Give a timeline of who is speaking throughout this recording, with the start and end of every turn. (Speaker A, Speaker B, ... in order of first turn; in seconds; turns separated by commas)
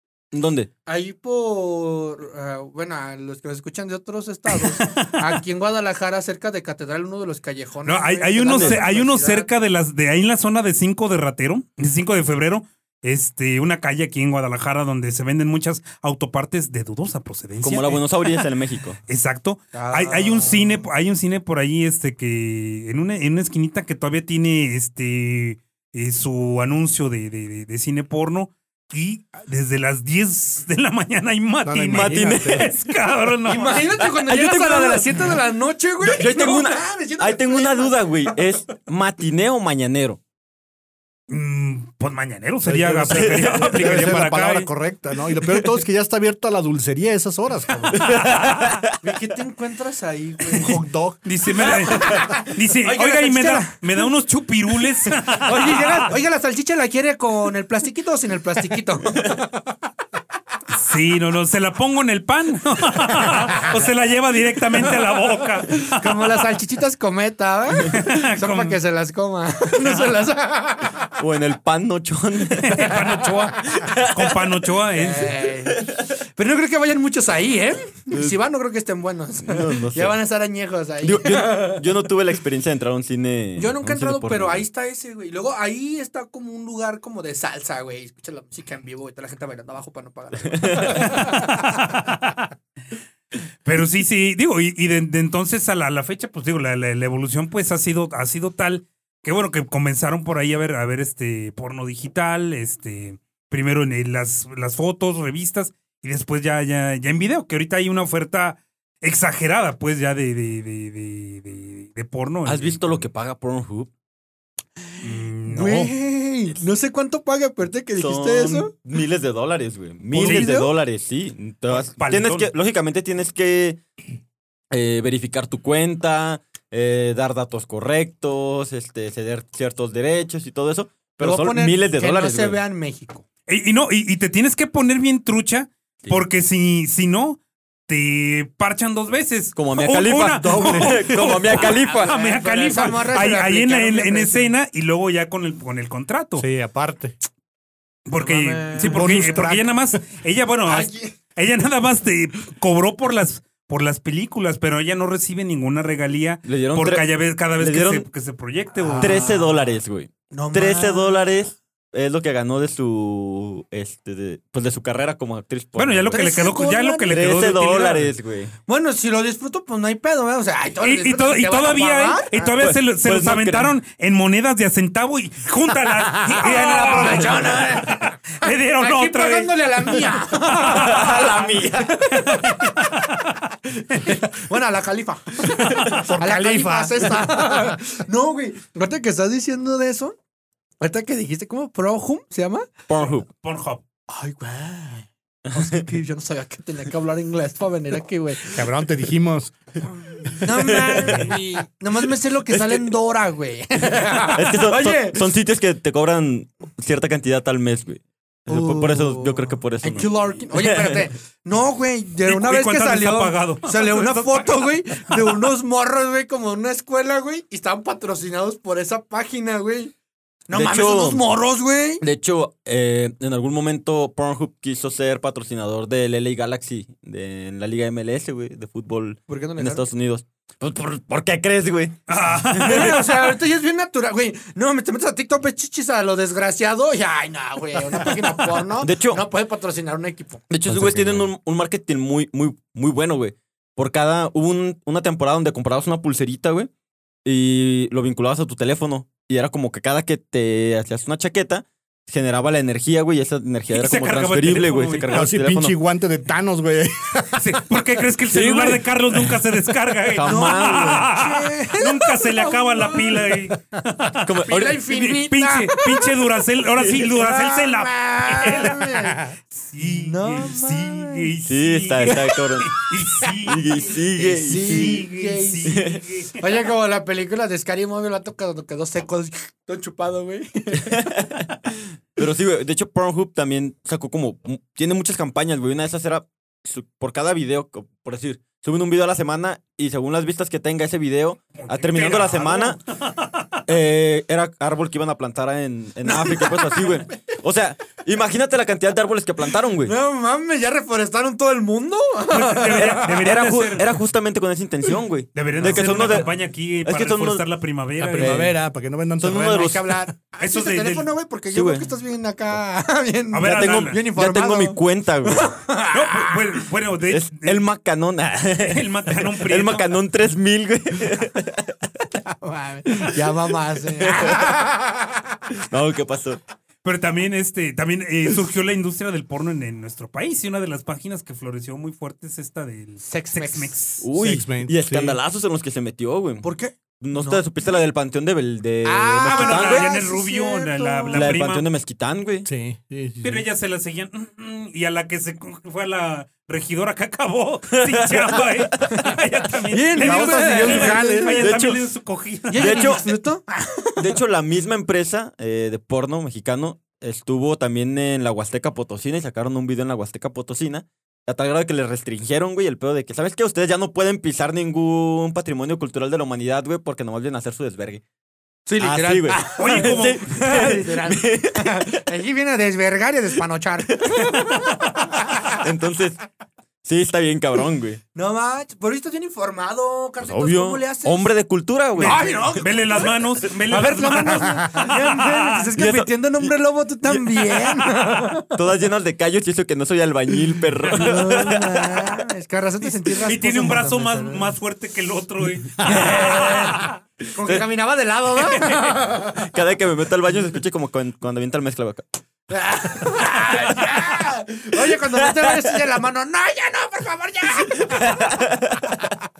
Speaker A: 0.3-0.7, Speaker B: 0.8-9.5, Speaker C: 4.5-5.4, Speaker C: 7.8-18.4, Speaker A: 8.4-8.8, Speaker A: 17.6-19.0, Speaker C: 19.1-33.9, Speaker B: 19.7-20.8, Speaker D: 31.6-32.7, Speaker A: 31.9-32.7, Speaker B: 33.5-38.5, Speaker A: 34.0-35.4, Speaker A: 36.0-40.2, Speaker C: 41.3-44.7, Speaker D: 42.6-48.2, Speaker A: 43.1-44.1, Speaker A: 47.9-49.0, Speaker B: 49.0-50.8, Speaker C: 50.5-56.1, Speaker D: 50.6-51.2, Speaker B: 51.6-54.1, Speaker B: 55.1-59.4, Speaker C: 60.7-66.4, Speaker B: 65.8-71.1, Speaker C: 67.8-68.8, Speaker A: 71.2-73.0, Speaker C: 72.6-75.3, Speaker B: 72.9-73.8, Speaker A: 73.7-74.4, Speaker B: 74.9-81.8, Speaker A: 75.4-76.1, Speaker A: 78.1-78.4, Speaker A: 79.4-80.2, Speaker A: 81.0-84.6, Speaker B: 83.6-91.7, Speaker A: 90.3-91.2, Speaker C: 90.8-92.5, Speaker C: 93.6-113.0, Speaker A: 112.5-113.9, Speaker B: 115.0-118.7, Speaker C: 115.0-115.9, Speaker A: 118.0-123.8, Speaker B: 120.1-120.7, Speaker C: 120.2-120.5, Speaker C: 121.7-122.5, Speaker A: 124.7-132.6, Speaker B: 131.2-133.2, Speaker C: 133.5-146.4, Speaker A: 139.6-142.1, Speaker D: 140.3-141.2, Speaker B: 141.5-144.5, Speaker D: 146.4-147.2, Speaker C: 148.1-159.2, Speaker B: 148.2-149.4, Speaker D: 148.8-149.8, Speaker B: 150.6-151.2, Speaker A: 156.4-158.1, Speaker B: 158.8-159.7, Speaker A: 159.0-166.2, Speaker B: 160.3-161.3, Speaker C: 165.8-168.1, Speaker B: 166.1-167.2, Speaker A: 167.1-168.5, Speaker B: 168.7-172.5, Speaker C: 170.8-179.5, Speaker A: 172.6-173.7, Speaker B: 176.1-182.9, Speaker C: 180.4-181.0, Speaker A: 180.6-182.4, Speaker C: 182.1-184.2, Speaker B: 183.9-190.2, Speaker D: 185.7-187.8, Speaker B: 190.8-192.7, Speaker A: 192.9-193.2, Speaker C: 193.0-193.8, Speaker B: 194.1-198.7, Speaker A: 195.4-195.9, Speaker D: 198.5-199.5, Speaker B: 200.0-205.3, Speaker A: 200.4-201.4, Speaker A: 202.5-202.9, Speaker A: 203.9-211.1, Speaker B: 208.5-219.9, Speaker C: 212.2-214.6, Speaker B: 220.5-222.0, Speaker A: 220.5-221.2, Speaker A: 222.0-233.4, Speaker B: 229.3-229.8, Speaker C: 232.1-233.0, Speaker B: 232.6-240.5, Speaker A: 238.8-239.2, Speaker A: 240.5-246.7, Speaker D: 240.7-241.2, Speaker A: 247.2-255.7, Speaker C: 253.7-255.1, Speaker D: 255.1-257.4, Speaker C: 257.4-269.0, Speaker A: 258.3-259.3, Speaker A: 260.1-261.1, Speaker B: 260.2-263.4, Speaker A: 264.2-264.8, Speaker B: 264.5-266.1, Speaker B: 266.9-271.3, Speaker C: 269.5-276.4, Speaker A: 271.4-275.0, Speaker B: 274.1-275.8, Speaker A: 275.6-276.0, Speaker B: 276.4-281.1, Speaker A: 280.7-281.5, Speaker A: 282.1-292.8, Speaker C: 291.5-293.4, Speaker A: 293.6-299.9, Speaker B: 296.0-297.0, Speaker B: 299.8-303.2, Speaker C: 302.3-303.9, Speaker A: 302.7-306.3, Speaker C: 305.3-308.4, Speaker A: 306.8-307.4, Speaker D: 308.0-309.8, Speaker A: 308.1-308.6, Speaker A: 309.2-310.0, Speaker B: 309.4-316.4, Speaker C: 310.4-311.1, Speaker A: 311.5-311.9, Speaker C: 313.3-314.0, Speaker A: 313.4-315.5, Speaker C: 315.9-317.6, Speaker A: 317.1-321.8, Speaker C: 318.6-319.9, Speaker B: 322.2-325.4, Speaker A: 323.9-324.5, Speaker A: 325.6-326.4, Speaker C: 326.8-334.0, Speaker B: 333.0-333.8, Speaker A: 334.0-339.9, Speaker D: 334.1-335.2, Speaker B: 336.4-337.4, Speaker B: 338.8-341.3, Speaker C: 339.2-341.6, Speaker A: 341.1-342.5, Speaker D: 342.4-343.4, Speaker C: 343.2-353.0, Speaker A: 347.7-348.9, Speaker B: 349.7-351.4, Speaker D: 349.9-351.5, Speaker A: 351.4-351.8, Speaker B: 352.5-354.0, Speaker A: 352.5-353.1, Speaker A: 354.0-368.0, Speaker B: 368.6-375.6, Speaker A: 368.8-372.0, Speaker C: 369.6-370.4, Speaker A: 373.9-374.6, Speaker A: 375.4-376.2, Speaker A: 376.8-378.0, Speaker B: 378.1-381.3, Speaker A: 380.2-382.6, Speaker B: 382.0-383.1, Speaker C: 382.0-385.6, Speaker B: 383.7-388.5, Speaker A: 385.8-387.9, Speaker A: 388.5-392.2, Speaker B: 390.9-394.5, Speaker C: 393.2-396.9, Speaker B: 395.8-399.5, Speaker A: 399.3-402.0, Speaker B: 402.5-408.4, Speaker A: 404.8-405.7, Speaker A: 407.8-408.9